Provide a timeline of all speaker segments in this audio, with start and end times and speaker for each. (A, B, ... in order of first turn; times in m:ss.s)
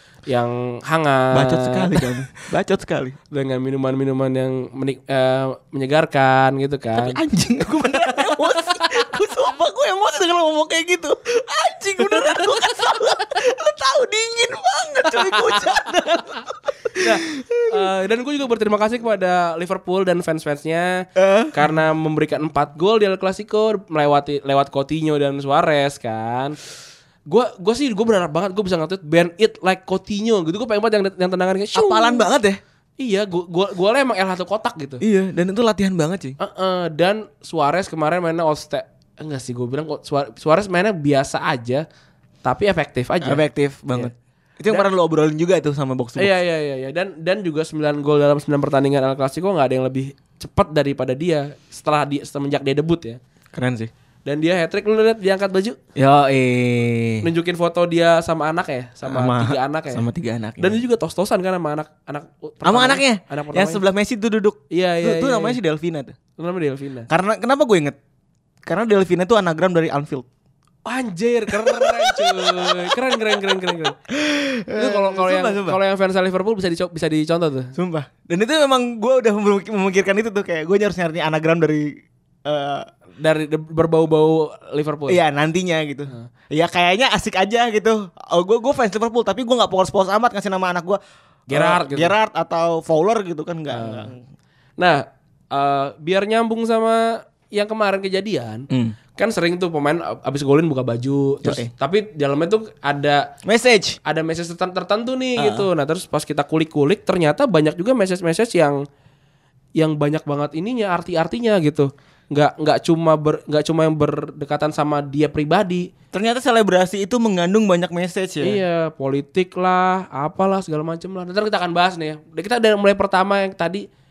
0:00.3-0:02.0 A
0:01.3-0:03.2 B
0:03.3-0:07.2 A
0:07.0-0:17.9 B
0:07.9-0:09.0 A
0:12.0-0:12.5 A
0:15.1-0:15.8 A
0:17.0-0:26.6 A
0:21.2-0:21.7 B
0:27.3-0:32.3 A
0:31.8-0:32.6 B
0:33.0-0:35.0 A
0:35.0-0:36.4 B
0:36.4-0:41.8 A
0:42.4-0:43.4 A
0:43.2-0:46.4 B
0:46.2-0:53.2 A
0:53.5-0:53.9 B
0:54.3-0:55.8 A
0:56.0-0:57.3 B
0:57.2-1:00.0 A
0:59.0-1:00.8 B
1:00.6-1:03.8 A
1:02.6-1:06.2 B
1:04.7-1:05.6 A
1:06.4-1:07.1 A
1:07.1-1:08.0 B
1:08.7-1:10.3 B
1:10.8-1:14.0 A
1:11.5-1:13.6 B
1:14.1-1:15.8 B
1:14.8-1:17.7 A
1:17.8-1:22.0 B
1:22.5-1:22.9 B
1:23.2-1:25.2 A
1:25.1-1:34.2 B
1:31.5-1:32.1 A
1:33.7-1:34.1 A
1:34.8-1:43.3 A
1:38.7-1:39.0 B
1:41.4-1:41.7 B
1:43.5-1:44.0 B
1:44.0-1:48.8 A
1:45.4-1:45.7 B
1:49.8-1:55.9 A
1:56.1-1:58.6 B
1:58.4-2:03.8 A